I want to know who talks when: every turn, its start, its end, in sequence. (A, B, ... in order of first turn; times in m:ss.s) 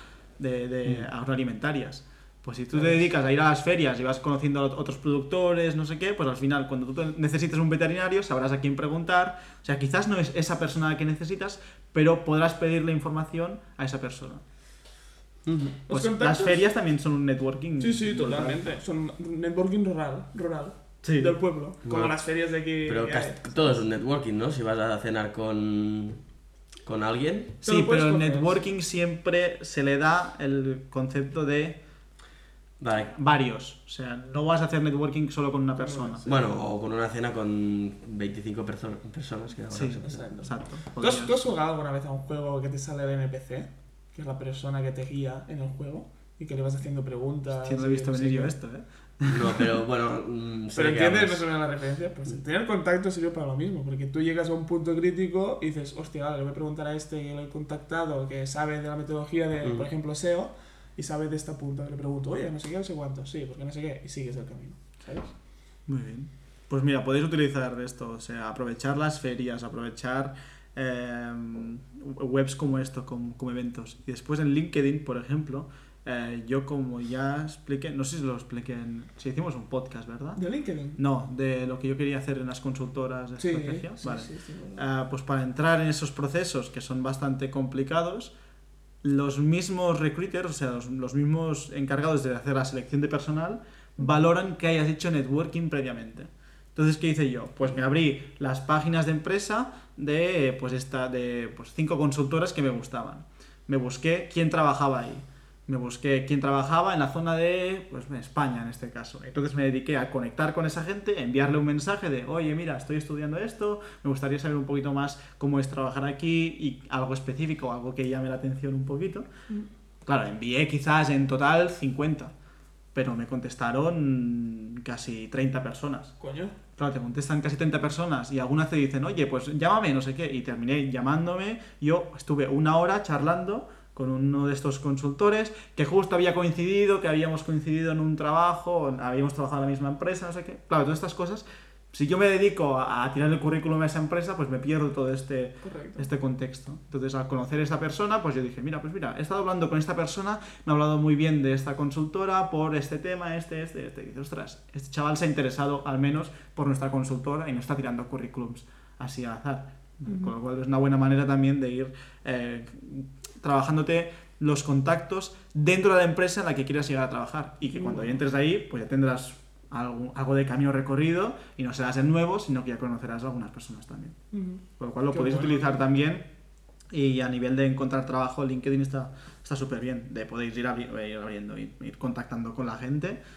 0:00.4-0:14.4 A
0:15.4-0:15.8 B
0:15.9-0:16.6 C
0:15.9-0:18.7 A
0:17.8-0:23.7 C
0:21.0-0:21.3 A
0:21.8-0:22.2 B
0:22.8-0:26.2 B
0:26.8-0:27.5 B
0:27.6-0:28.6 C
0:27.6-0:31.8 A
0:32.8-0:33.1 B
0:33.1-0:36.2 A
0:35.8-0:36.4 C
0:36.2-0:40.2 B
0:39.7-0:41.4 A
0:40.0-0:48.5 C
0:47.6-0:49.6 A
0:49.2-0:51.4 B
0:50.8-1:05.3 C
0:59.6-0:59.9 B
1:05.9-1:20.4 A
1:20.4-1:21.0 C
1:21.0-1:28.3 A
1:23.4-1:24.8 C
1:29.0-1:59.3 A
2:00.0-2:02.3 A
2:02.9-2:06.1 A
2:06.2-2:06.5 C
2:06.8-2:54.2 A
2:25.6-2:26.1 C
2:40.1-2:40.3 C
2:47.7-2:48.2 C
2:54.3-2:55.8 C
2:54.8-2:56.3 A
2:56.9-3:03.2 A